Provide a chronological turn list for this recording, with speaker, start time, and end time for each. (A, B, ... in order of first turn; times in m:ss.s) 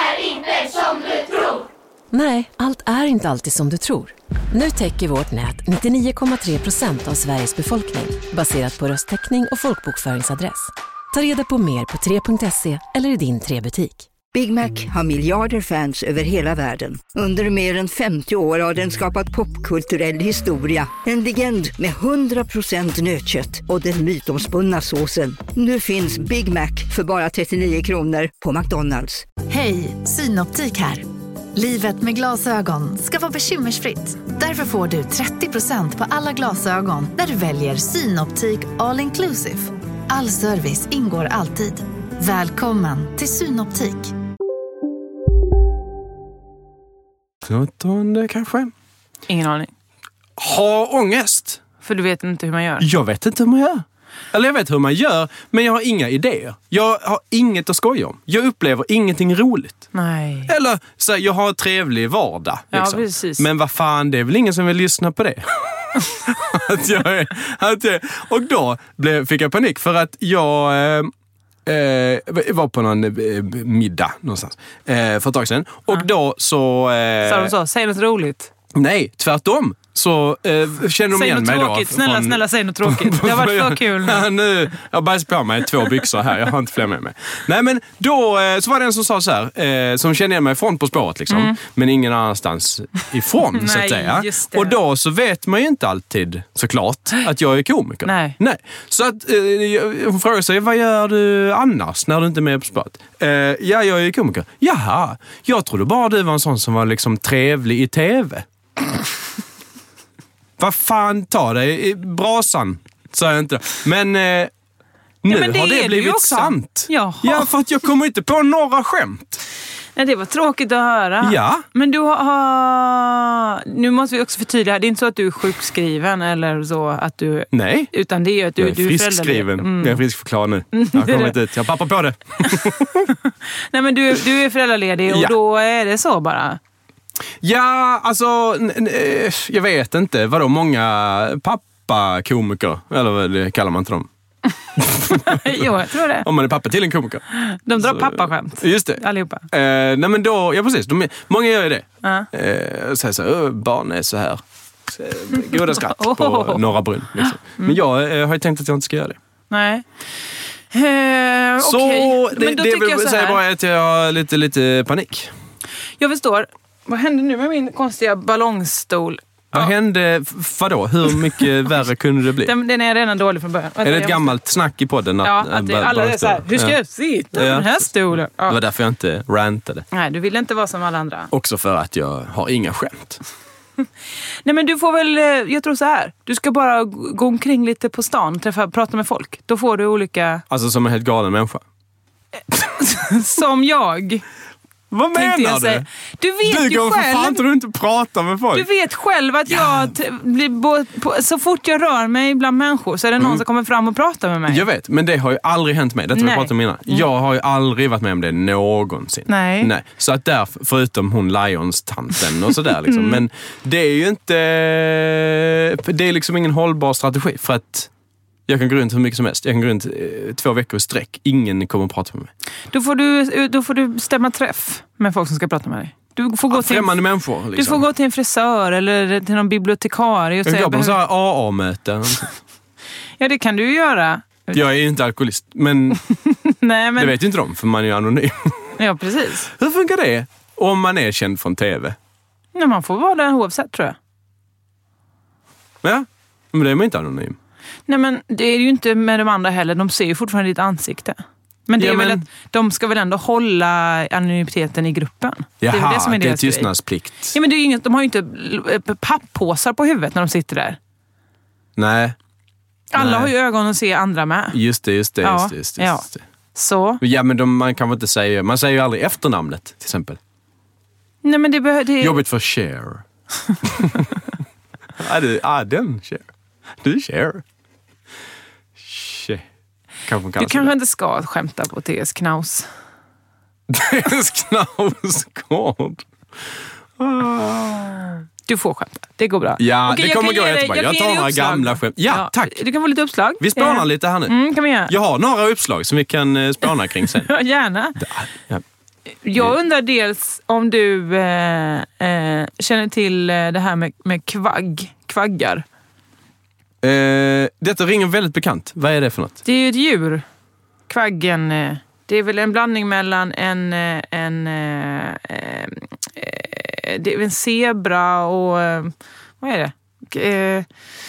0:02.1-0:14.1 A
0:14.3-0:29.3 B
0:29.5-0:44.1 C
0:47.4-0:48.7 D
0:49.3-0:49.7 E
0:50.4-0:51.6 D
0:51.8-0:52.9 E
0:52.8-0:59.8 D
0:59.9-1:00.5 E
1:00.5-1:11.1 D
1:02.7-1:03.4 E
1:11.7-1:17.5 D
1:17.2-1:18.5 E
1:18.7-1:48.5 D
1:21.1-1:24.3 E
1:31.3-1:31.6 E
1:33.5-1:34.8 E
1:38.0-1:38.4 E
1:50.6-1:54.5 D
1:55.2-1:59.4 D
1:55.3-1:57.5 E
2:00.0-2:10.0 E
2:01.2-2:01.6 D
2:07.5-2:07.9 D
2:08.6-2:13.1 D
2:10.7-2:11.4 E
2:13.1-2:16.6 E
2:15.1-2:15.4 D
2:17.4-2:24.1 D
2:24.8-2:25.7 D
2:25.1-2:26.3 E
2:26.2-2:27.2 D
2:27.4-2:29.5 E
2:27.8-2:39.2 D
2:32.0-2:32.3 E
2:35.6-2:37.8 E
2:39.5-2:39.8 E
2:40.7-2:43.4 E
2:41.6-2:45.3 D
2:46.0-2:49.7 E
2:49.5-2:52.5 D
2:52.4-2:54.4 E
2:53.8-2:56.8 D
2:55.2-2:58.6 E
2:57.3-2:59.8 D
2:59.9-3:01.3 E
3:01.3-3:03.2 D
3:04.4-3:10.4 E
3:10.5-3:11.6 D
3:12.8-3:14.2 E
3:14.9-3:15.9 D
3:15.1-3:17.4 E
3:16.4-3:18.7 D
3:18.5-3:24.7 E
3:19.5-3:19.9 D
3:24.5-3:37.9 D
3:26.1-3:27.0 E
3:29.3-3:29.7 E
3:32.9-3:33.2 E
3:38.5-3:42.3 D
3:42.7-3:47.0 E
3:46.5-3:47.8 D
3:47.5-3:51.0 E
3:50.4-3:52.3 D
3:53.2-3:54.6 E
3:54.5-3:56.0 D
3:56.3-3:57.1 E
3:57.0-3:58.8 D
3:58.8-3:59.5 E
3:59.5-4:02.0 D
4:02.6-4:04.0 E
4:05.8-4:07.4 D
4:07.9-4:16.7 E
4:11.8-4:12.2 D
4:15.6-4:17.4 D
4:17.3-4:20.8 E
4:21.8-4:22.2 D
4:22.9-4:24.6 E
4:23.0-4:23.3 D
4:24.5-4:26.2 D
4:25.2-4:27.0 E
4:27.0-4:30.2 D
4:31.2-4:32.2 E
4:32.0-4:33.0 D
4:33.6-4:34.1 D
4:35.0-4:36.3 D
4:36.8-4:37.4 D
4:38.8-4:39.4 D
4:40.1-4:40.7 D
4:40.4-4:42.7 E
4:43.7-4:46.1 D
4:47.0-4:48.2 D
4:48.5-4:54.9 E
4:49.6-4:52.6 D
4:53.4-4:54.4 D
4:54.9-4:57.3 D
4:57.3-4:58.0 E
4:58.0-4:58.6 D
4:59.2-5:05.6 E
5:06.8-5:09.4 D
5:09.4-5:10.2 E
5:10.9-5:20.7 E